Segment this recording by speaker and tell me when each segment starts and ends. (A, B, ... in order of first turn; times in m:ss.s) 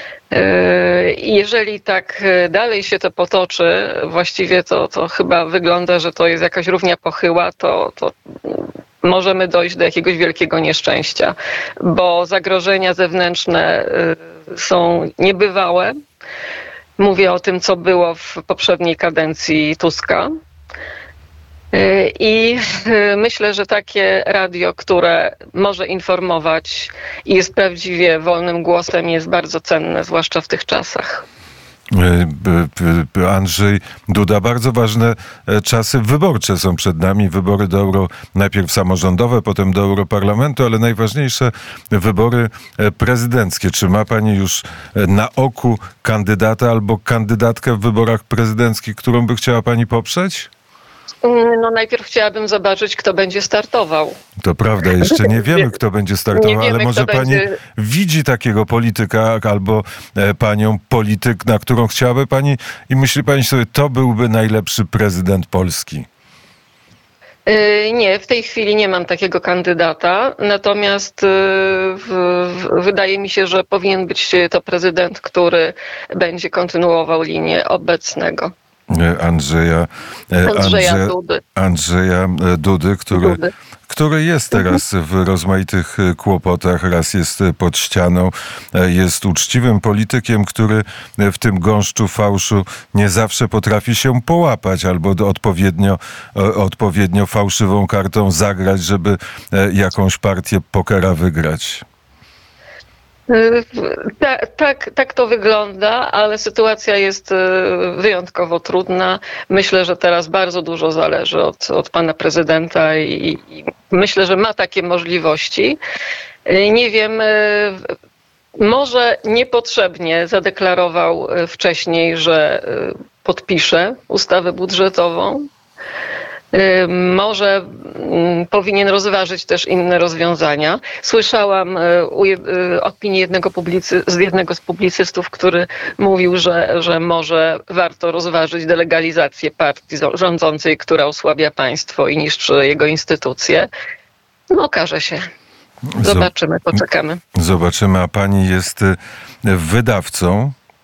0:00.3-0:15.9 A
0:17.0-0:20.3 A
0:21.7-0:31.2 A
0:31.9-0:50.5 B
0:51.2-0:54.2 A
0:54.4-1:06.0 B
0:55.0-0:55.7 A
0:56.3-0:57.5 A
1:07.4-1:18.5 A
1:18.9-1:41.8 B
1:20.5-1:21.4 A
1:23.1-1:23.5 A
1:24.5-1:24.8 A
1:43.3-1:55.8 A
1:56.4-1:57.8 A
1:58.6-2:05.5 A
2:06.5-2:23.7 A
2:24.5-2:25.2 A
2:25.9-2:26.3 B
2:26.0-2:27.2 A
2:27.4-2:30.5 B